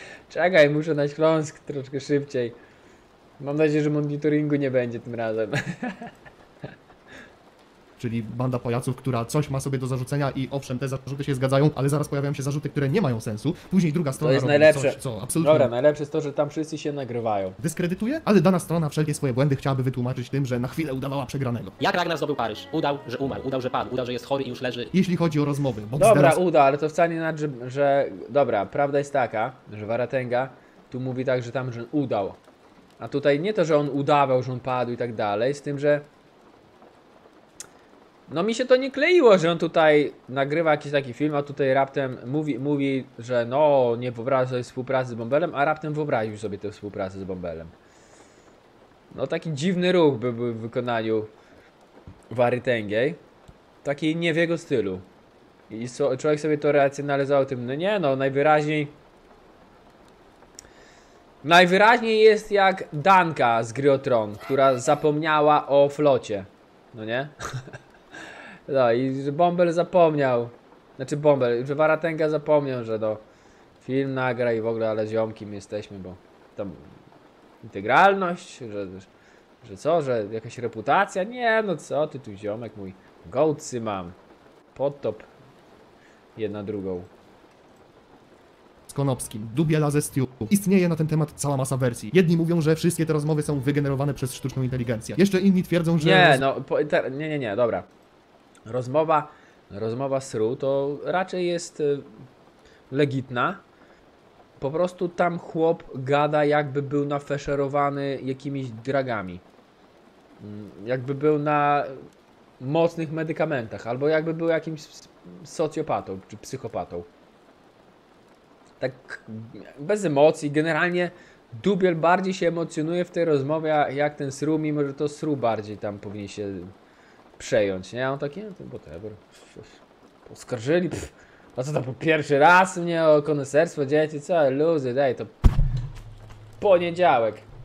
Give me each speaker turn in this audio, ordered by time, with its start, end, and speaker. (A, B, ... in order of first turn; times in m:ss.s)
0:00.3-0:02.6 A
0:03.4-0:06.1 A
0:08.0-0:15.7 B
0:14.2-0:17.6 A
0:17.6-0:21.8 B
0:21.8-0:24.9 C
0:24.9-0:26.4 B
0:26.0-0:32.4 A
0:33.0-0:36.1 A
0:38.3-0:47.7 A
0:49.1-0:51.3 A
0:52.3-0:53.2 A
0:53.8-0:55.0 A
0:55.7-0:59.0 A
1:01.4-1:07.8 A
1:08.7-1:13.2 A
1:13.8-1:16.9 A
1:17.6-1:19.1 A
1:19.6-1:24.2 A
1:24.8-1:25.3 A
1:26.4-1:27.1 A
1:28.9-1:36.4 B
1:36.0-1:37.9 A
1:38.7-1:42.1 A
1:42.9-1:43.6 A
1:44.6-1:49.4 A
1:50.4-1:52.0 A
1:52.6-1:57.1 A
1:58.8-2:06.7 A
2:07.4-2:15.3 A
2:16.6-2:17.4 A